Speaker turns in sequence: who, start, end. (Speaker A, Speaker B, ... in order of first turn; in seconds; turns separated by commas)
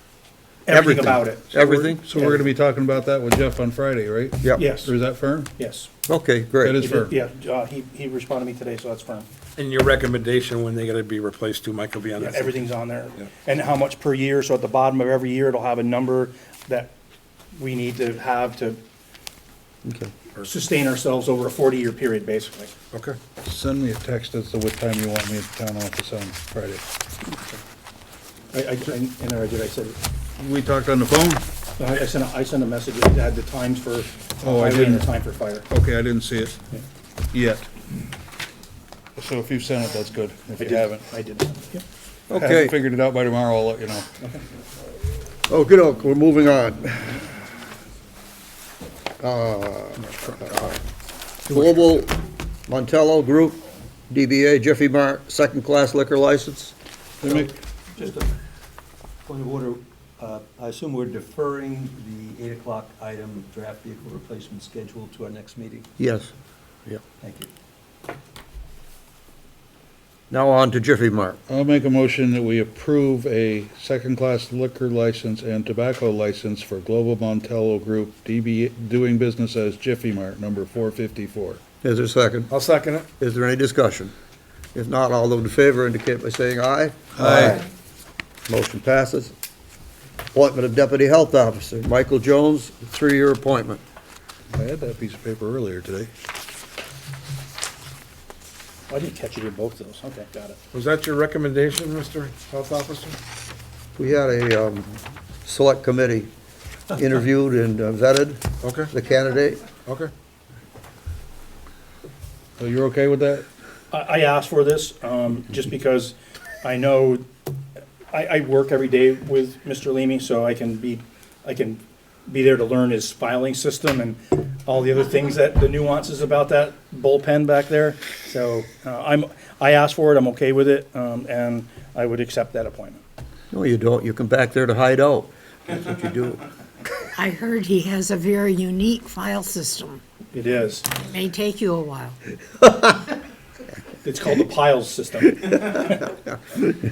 Speaker A: 0.7-2.4, Speaker B: 0.7-2.0, Speaker C: 1.9-5.5, Speaker A: 4.6-4.9, Speaker A: 5.6-5.9, Speaker B: 6.1-6.8, Speaker C: 6.6-7.1, Speaker A: 6.8-9.3, Speaker D: 9.6-12.7, Speaker A: 12.2-16.9, Speaker A: 17.6-18.8, Speaker B: 19.8-20.1, Speaker A: 20.4-22.7, Speaker D: 22.9-23.2, Speaker C: 23.4-26.8, Speaker A: 28.5-30.0, Speaker C: 30.4-31.4, Speaker A: 31.8-35.6, Speaker C: 34.4-35.1, Speaker C: 35.7-36.6, Speaker C: 37.3-37.7, Speaker C: 39.2-41.0, Speaker A: 40.6-41.8, Speaker B: 42.3-42.7, Speaker C: 42.3-44.0, Speaker B: 45.5-47.3, Speaker B: 49.2-50.1, Speaker A: 50.0-50.8, Speaker B: 51.5-52.1, Speaker B: 52.7-56.7, Speaker C: 57.2-57.5, Speaker E: 57.2-58.3, Speaker E: 59.2-65.9, Speaker B: 66.0-66.3, Speaker E: 66.9-67.5, Speaker B: 70.3-71.4, Speaker C: 71.5-81.6, Speaker B: 81.8-82.5, Speaker D: 82.5-83.1, Speaker B: 83.2-84.1, Speaker B: 84.7-87.6, Speaker C: 87.2-87.6, Speaker B: 88.5-89.3, Speaker B: 90.3-93.8, Speaker C: 94.5-96.1, Speaker A: 98.9-100.6, Speaker D: 100.7-103.2, Speaker B: 104.0-106.3, Speaker B: 106.9-109.6, Speaker D: 108.6-108.9, Speaker D: 109.8-110.1, Speaker C: 112.6-113.5, Speaker A: 113.9-117.2, Speaker A: 118.1-133.0, Speaker B: 133.5-136.4, Speaker F: 137.1-140.0, Speaker A: 140.3-140.9, Speaker F: 141.0-142.2, Speaker B: 142.7-142.9, Speaker A: 144.0-146.1